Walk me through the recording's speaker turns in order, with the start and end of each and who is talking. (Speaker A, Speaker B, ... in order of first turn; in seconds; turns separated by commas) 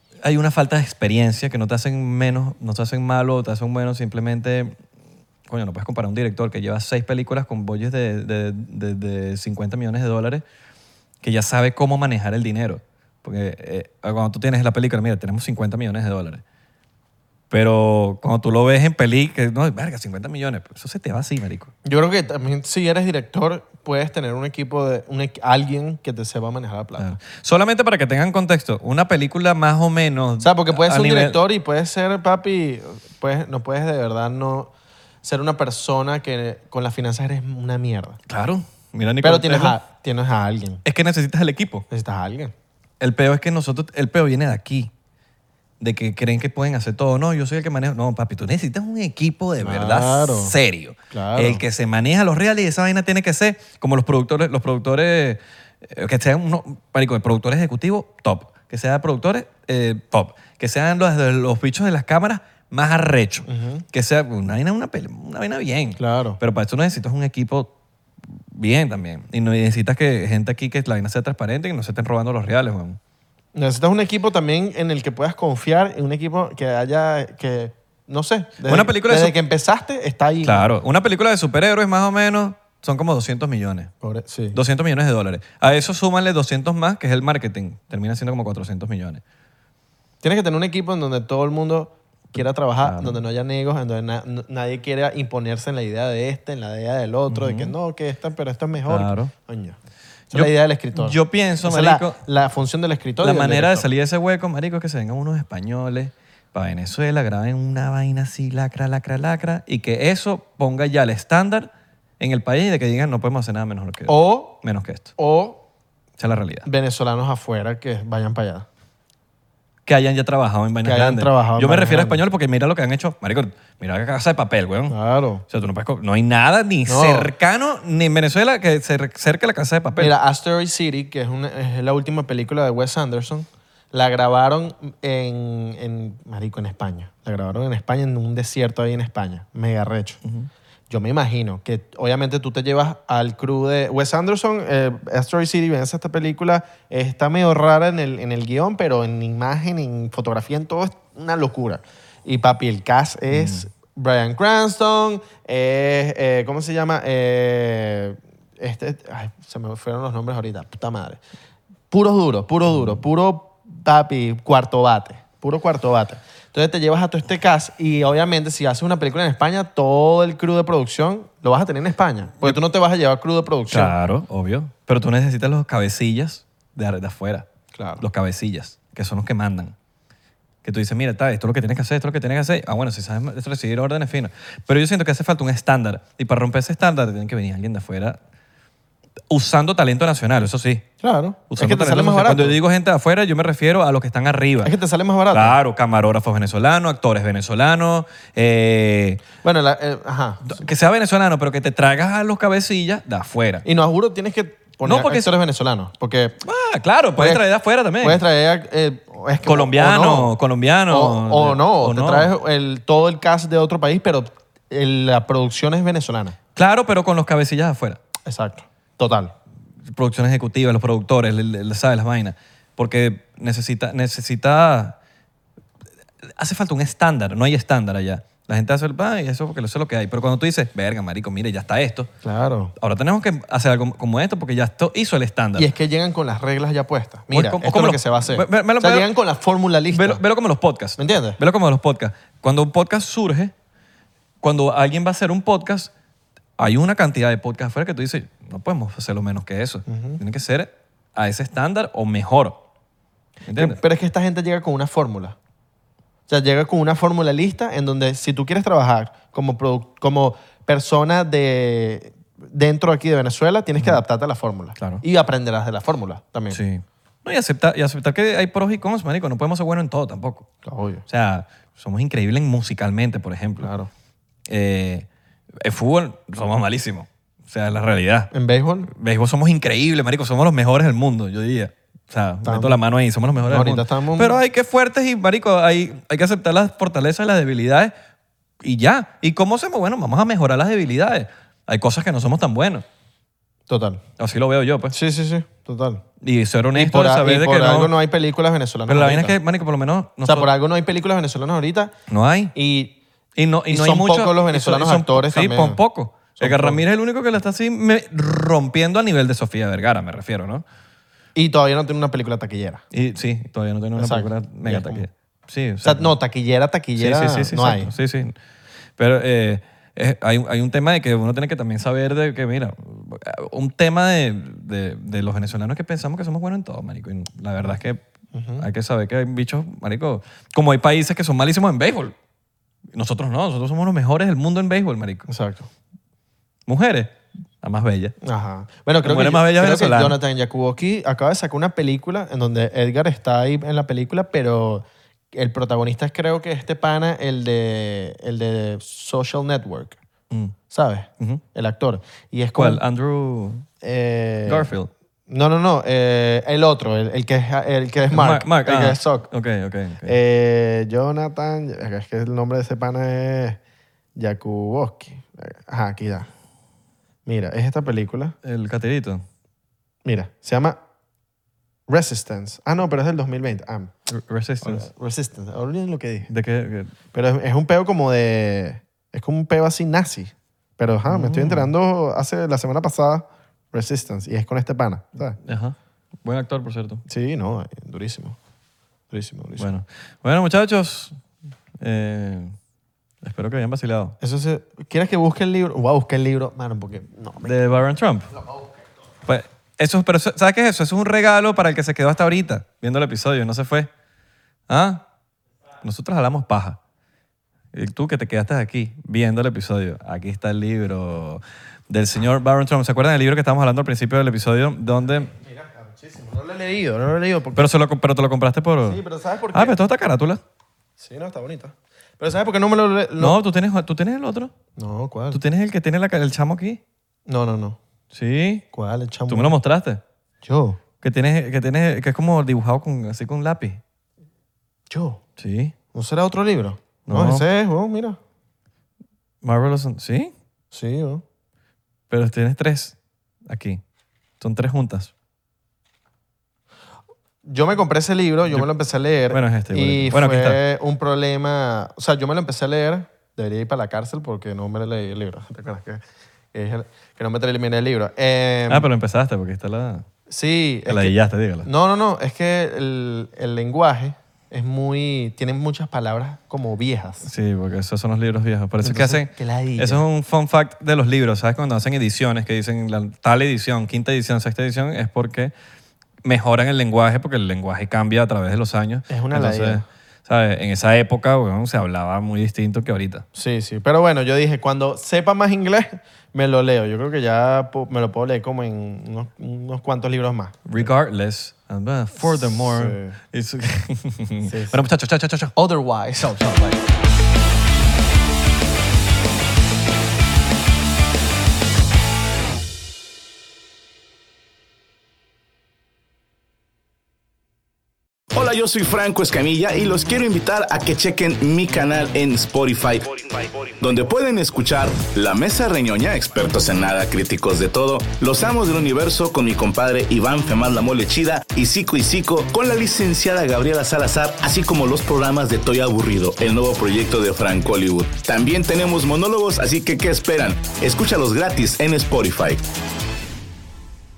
Speaker A: 0.2-4.8, Speaker A: 5.5-10.4, Speaker A: 11.2-16.4, Speaker A: 17.5-21.7, Speaker B: 21.8-27.1, Speaker A: 27.0-31.4, Speaker B: 30.4-34.7, Speaker B: 35.2-38.2, Speaker A: 38.3-39.8, Speaker B: 39.2-40.8, Speaker A: 40.9-41.9, Speaker B: 41.9-42.5, Speaker A: 43.0-44.9, Speaker A: 45.8-67.7, Speaker B: 49.6-50.6, Speaker B: 51.1-51.6, Speaker B: 63.5-63.8, Speaker B: 66.0-66.4, Speaker A: 68.5-73.0, Speaker B: 73.5-80.7, Speaker A: 78.6-79.3, Speaker A: 80.4-83.9, Speaker B: 84.0-84.6, Speaker A: 84.5-89.2, Speaker B: 90.2-99.8, Speaker A: 92.8-93.2, Speaker A: 97.3-97.7, Speaker A: 98.8-99.3, Speaker B: 100.3-103.9, Speaker A: 100.3-102.2, Speaker A: 103.2-111.7, Speaker A: 112.2-115.1, Speaker B: 114.1-114.6, Speaker B: 115.2-115.6, Speaker A: 116.2-116.7, Speaker B: 116.6-118.7, Speaker A: 119.8-125.0, Speaker B: 120.8-122.2, Speaker B: 124.9-125.4, Speaker A: 125.5-130.1, Speaker B: 126.9-127.3, Speaker B: 130.0-140.2, Speaker B: 140.9-161.2, Speaker A: 153.3-153.6, Speaker B: 161.9-173.9, Speaker A: 173.7-177.4, Speaker B: 177.7-178.0, Speaker A: 178.0-179.7, Speaker A: 180.6-188.2, Speaker A: 189.3-190.8, Speaker B: 191.0-192.6, Speaker A: 191.5-194.7, Speaker B: 194.6-195.6, Speaker A: 195.3-199.2, Speaker B: 199.4-200.6, Speaker A: 200.4-203.7, Speaker B: 203.6-206.4, Speaker A: 204.8-205.3, Speaker A: 206.4-208.2, Speaker B: 207.2-207.4, Speaker B: 208.0-210.3, Speaker A: 209.4-212.3, Speaker B: 210.9-216.4, Speaker A: 216.5-218.0, Speaker B: 218.2-219.3, Speaker A: 219.9-225.0, Speaker A: 226.4-232.1, Speaker B: 232.2-232.7, Speaker A: 232.8-235.7, Speaker B: 235.6-240.2, Speaker A: 237.3-239.1, Speaker A: 239.9-243.5, Speaker B: 241.0-241.4, Speaker A: 244.4-245.9, Speaker A: 246.6-252.6, Speaker B: 249.9-250.2, Speaker A: 253.4-253.8, Speaker B: 253.5-255.3, Speaker B: 256.3-266.6, Speaker A: 264.8-265.0, Speaker A: 266.5-270.5, Speaker B: 270.6-271.1, Speaker A: 271.1-273.7, Speaker B: 273.6-273.9, Speaker A: 274.5-275.1, Speaker A: 275.6-278.3, Speaker B: 278.3-278.9, Speaker A: 278.9-287.9, Speaker B: 282.4-282.8, Speaker B: 283.4-284.4, Speaker A: 288.6-292.8, Speaker B: 293.7-294.0, Speaker A: 294.2-294.9, Speaker B: 294.9-296.0, Speaker A: 296.2-297.9, Speaker B: 296.7-299.4, Speaker A: 298.9-300.5, Speaker B: 300.2-301.9, Speaker A: 302.1-302.5, Speaker B: 302.5-303.0, Speaker A: 303.4-310.6, Speaker B: 303.7-305.8, Speaker B: 306.4-306.8, Speaker B: 311.3-312.8, Speaker A: 312.9-316.1, Speaker B: 314.0-315.0, Speaker B: 315.8-317.9, Speaker A: 316.9-318.3, Speaker A: 319.0-328.0, Speaker B: 328.3-328.6, Speaker A: 328.6-332.1, Speaker A: 332.9-335.3, Speaker B: 335.3-335.7, Speaker A: 336.7-338.1, Speaker B: 338.2-350.0, Speaker A: 339.0-340.2, Speaker B: 350.7-352.8, Speaker A: 352.6-353.6, Speaker B: 353.8-354.7, Speaker A: 354.4-354.9, Speaker B: 355.3-359.3, Speaker A: 358.1-360.2, Speaker B: 360.0-363.6, Speaker B: 364.1-366.3, Speaker B: 367.2-368.4, Speaker A: 368.4-369.2, Speaker B: 370.0-370.8, Speaker B: 371.9-373.9, Speaker A: 374.1-374.9, Speaker B: 374.6-376.3, Speaker A: 376.3-376.9, Speaker B: 377.1-385.4, Speaker A: 381.1-381.7, Speaker A: 385.4-387.0, Speaker B: 387.1-388.4, Speaker B: 389.1-389.7, Speaker A: 389.6-391.2, Speaker A: 391.8-392.5, Speaker A: 393.2-394.1, Speaker B: 394.2-397.6, Speaker A: 397.4-398.3, Speaker A: 399.2-403.9, Speaker A: 404.7-405.0, Speaker A: 405.8-406.8, Speaker A: 407.7-415.3, Speaker B: 415.2-417.7, Speaker A: 417.6-419.0, Speaker B: 418.8-419.8, Speaker A: 419.5-420.4, Speaker B: 421.0-423.4, Speaker A: 423.2-424.5, Speaker B: 424.8-425.4, Speaker A: 425.3-426.8, Speaker B: 427.3-427.8, Speaker A: 428.1-428.6, Speaker B: 428.7-429.5, Speaker A: 429.3-430.0, Speaker B: 430.4-430.8, Speaker A: 431.0-433.8, Speaker B: 434.9-435.2, Speaker A: 435.4-435.7, Speaker B: 435.9-438.2, Speaker A: 437.1-437.4, Speaker A: 439.4-440.3, Speaker B: 440.7-441.2, Speaker A: 442.1-442.9, Speaker A: 443.5-443.8, Speaker A: 444.4-445.1, Speaker B: 447.4-456.0, Speaker A: 449.3-450.6, Speaker B: 456.5-458.9, Speaker A: 458.7-460.0, Speaker B: 460.3-467.3, Speaker A: 460.9-461.7, Speaker A: 467.2-475.5, Speaker B: 468.8-470.0, Speaker A: 476.2-483.2, Speaker B: 479.1-479.8, Speaker B: 483.3-490.8, Speaker A: 490.6-495.5, Speaker B: 492.2-493.2, Speaker B: 494.4-494.8, Speaker B: 495.6-496.8, Speaker A: 496.2-496.6, Speaker C: 508.3-532.6